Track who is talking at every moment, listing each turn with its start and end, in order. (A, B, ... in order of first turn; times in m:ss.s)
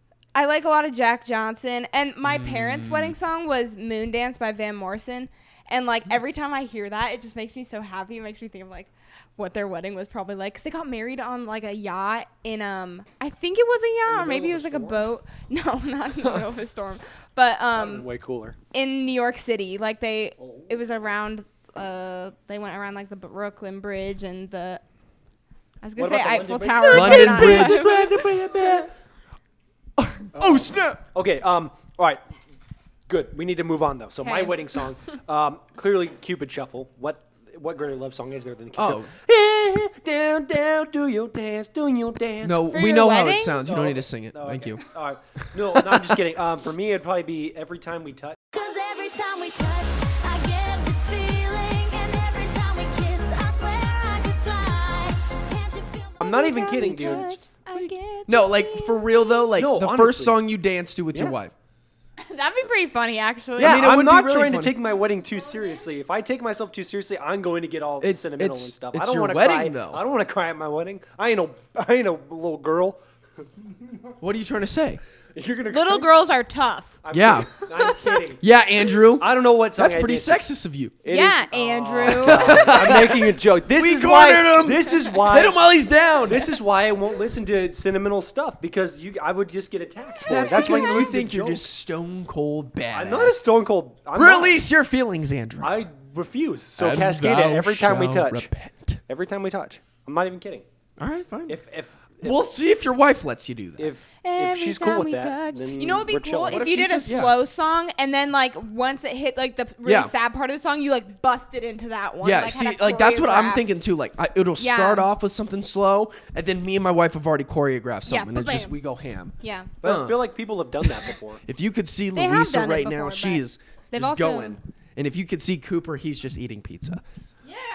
0:00.3-0:18.0 A
0:02.2-0:03.2 B
0:14.1-0:15.1 C
0:16.2-0:16.5 B
0:17.7-0:18.6 C
0:18.7-0:24.8 A
0:20.4-0:20.7 C
0:25.8-0:28.1 A
0:26.0-0:28.9 C
0:26.8-0:28.9 B
0:30.0-0:31.0 B
0:30.3-0:32.2 C
0:33.1-0:42.6 C
0:34.2-0:34.6 A
0:38.7-0:39.1 B
0:42.4-0:44.8 B
0:42.7-0:43.6 A
0:43.6-0:48.4 C
0:45.6-0:46.2 B
0:48.5-0:56.1 D
0:56.2-0:57.3 C
0:56.2-0:59.5 A
0:57.7-1:01.5 B
0:59.5-1:00.5 C
1:02.2-1:03.8 A
1:03.6-1:04.8 B
1:03.6-1:13.0 C
1:05.4-1:05.7 D
1:08.0-1:10.0 B
1:14.2-1:15.0 B
1:15.3-1:16.1 C
1:15.7-1:17.0 A
1:17.0-1:18.5 C
1:17.1-1:17.5 B
1:18.4-1:20.9 B
1:19.2-1:20.4 C
1:21.0-1:25.6 C
1:21.1-1:23.0 A
1:22.1-1:26.6 B
1:26.2-1:31.7 C
1:30.3-1:33.4 B
1:30.6-1:31.1 A
1:32.9-1:34.6 C
1:34.1-1:35.9 B
1:35.6-1:38.5 C
1:36.8-1:39.0 B
1:39.1-1:40.6 C
1:41.0-1:41.6 B
1:41.5-1:42.4 C
1:42.2-1:43.9 B
1:43.8-1:46.7 C
1:44.2-1:53.8 A
1:46.5-1:47.4 B
1:49.8-1:50.1 B
1:52.2-2:00.2 B
1:54.6-1:55.1 A
1:58.0-1:58.8 A
1:59.4-1:59.7 A
1:59.8-2:01.4 C
2:01.4-2:07.0 B
2:02.1-2:04.6 A